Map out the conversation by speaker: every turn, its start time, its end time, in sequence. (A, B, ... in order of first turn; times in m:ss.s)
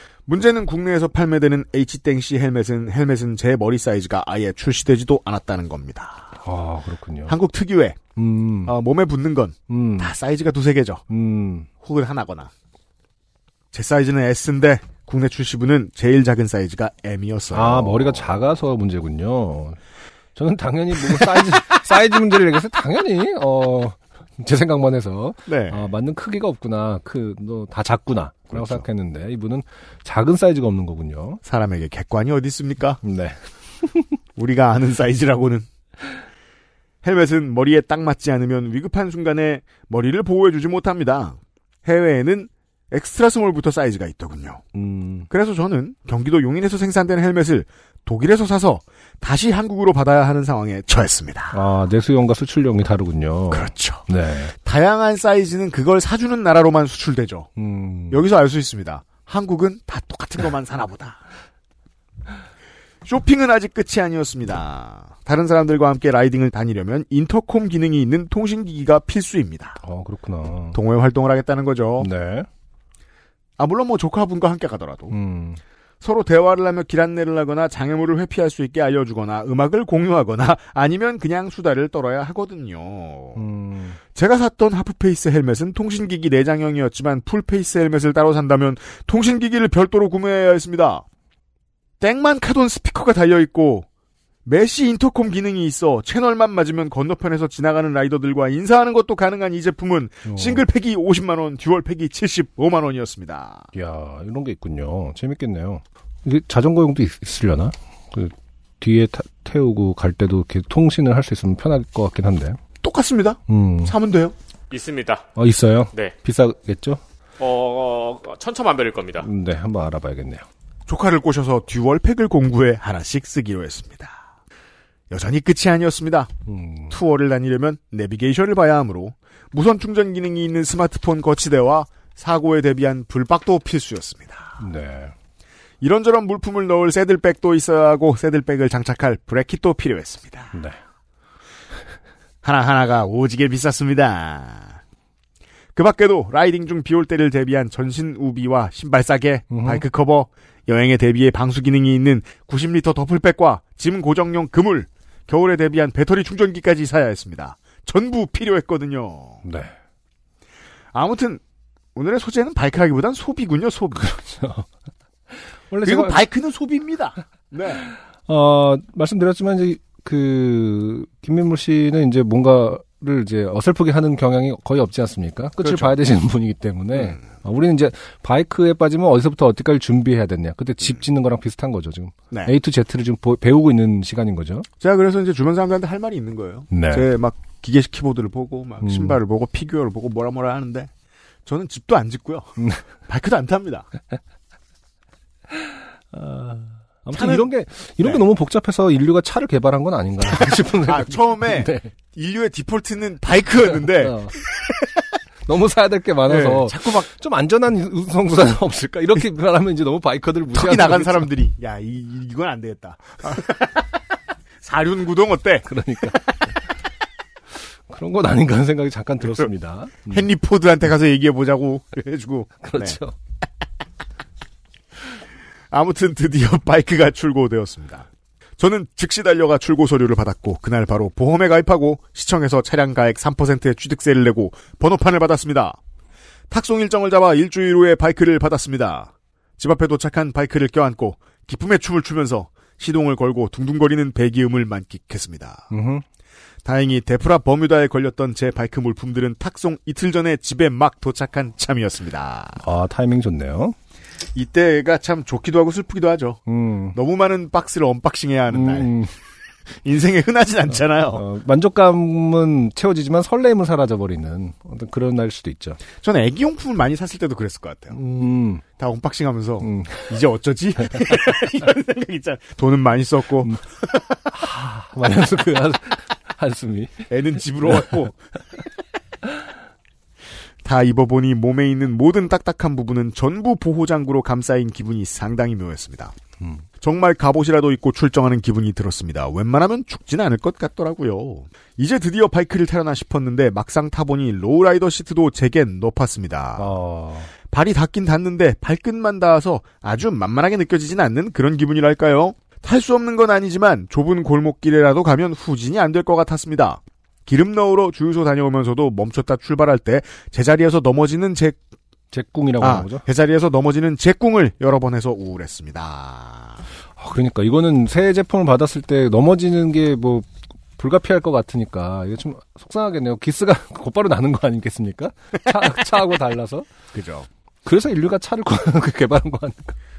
0:00.3-0:06.3 A
0:06.4-0:07.4 B
0:07.3-0:08.0 A
0:08.2-0:08.7 B
0:08.7-0:11.0 A
0:09.7-0:10.1 B
0:11.1-0:11.7 B
0:11.8-0:12.5 A
0:13.7-0:18.4 A
0:17.5-0:19.8 B
0:20.4-0:31.4 B
0:21.1-0:21.6 A
0:25.5-0:25.9 A
0:28.5-0:28.8 A
0:31.4-0:33.0 A
0:33.0-0:34.2 B
0:34.4-0:35.7 A
0:37.0-0:44.6 A
0:44.8-0:45.3 B
0:45.3-0:51.6 A
0:51.5-0:54.5 B
0:53.5-0:57.5 A
0:57.6-0:58.2 B
0:58.1-1:01.2 A
1:03.0-1:09.8 A
1:09.8-1:10.8 B
1:10.7-1:12.1 A
1:12.0-1:12.5 B
1:13.6-1:15.2 A
1:15.1-1:15.6 B
1:16.0-1:23.4 A
1:23.4-1:24.0 B
1:24.1-1:31.0 A
1:32.0-1:33.9 A
1:34.4-1:43.7 A
1:40.2-1:40.6 B
1:43.7-1:52.6 B
1:52.8-1:54.4 A
1:53.5-1:54.0 B
1:54.7-1:55.3 C
1:55.4-1:57.0 B
1:57.4-1:59.3 C
1:59.2-2:00.5 B
2:00.9-2:04.2 A
2:05.1-2:06.3 A
2:06.5-2:07.0 B
2:06.9-2:14.6 A
2:14.6-2:15.1 B
2:15.8-2:20.6 A
2:22.4-2:24.8 A
2:25.8-2:39.4 A
2:29.5-2:29.8 B
2:39.4-2:39.7 B
2:40.9-2:41.4 A
2:42.0-2:44.1 A
2:44.0-2:44.7 B
2:45.3-2:46.3 B
2:45.8-2:47.9 A
2:48.3-3:04.7 B
2:55.6-2:56.0 A
2:57.0-2:57.2 A
3:04.8-3:10.9 A
3:06.7-3:07.1 B
3:08.8-3:09.2 B
3:11.5-3:12.6 A
3:12.6-3:12.8 B
3:13.1-3:13.9 A
3:16.1-3:21.9 B
3:17.1-3:17.5 A
3:20.3-3:24.9 A
3:23.7-3:24.4 B
3:25.5-3:31.3 B
3:26.3-3:27.1 A
3:30.5-3:34.0 A
3:34.6-3:36.5 A
3:35.7-3:36.3 B
3:37.9-3:40.3 B
3:40.1-3:43.0 A
3:42.6-3:43.2 B
3:45.7-3:48.1 A
3:48.6-3:55.8 A
3:56.5-4:05.7 A
4:05.7-4:06.0 B
4:06.6-4:12.6 A
4:12.6-4:13.8 B
4:14.3-4:16.4 A
4:16.5-4:17.0 B
4:16.9-4:18.9 A
4:18.5-4:19.1 B
4:19.8-4:21.2 A
4:21.1-4:25.8 B
4:26.0-4:28.0 A
4:27.9-4:28.6 B
4:28.8-4:34.2 A
4:29.6-4:30.1 B
4:30.8-4:31.1 B
4:34.3-4:37.1 B
4:37.1-4:38.2 A
4:37.6-4:38.0 B
4:40.6-4:46.2 A
4:46.8-4:56.7 A
4:56.6-4:57.3 B
4:57.5-5:11.6 A
5:12.1-5:13.1 B
5:12.6-5:16.6 A
5:17.0-5:26.7 B
5:26.9-5:27.3 A
5:27.6-5:29.8 B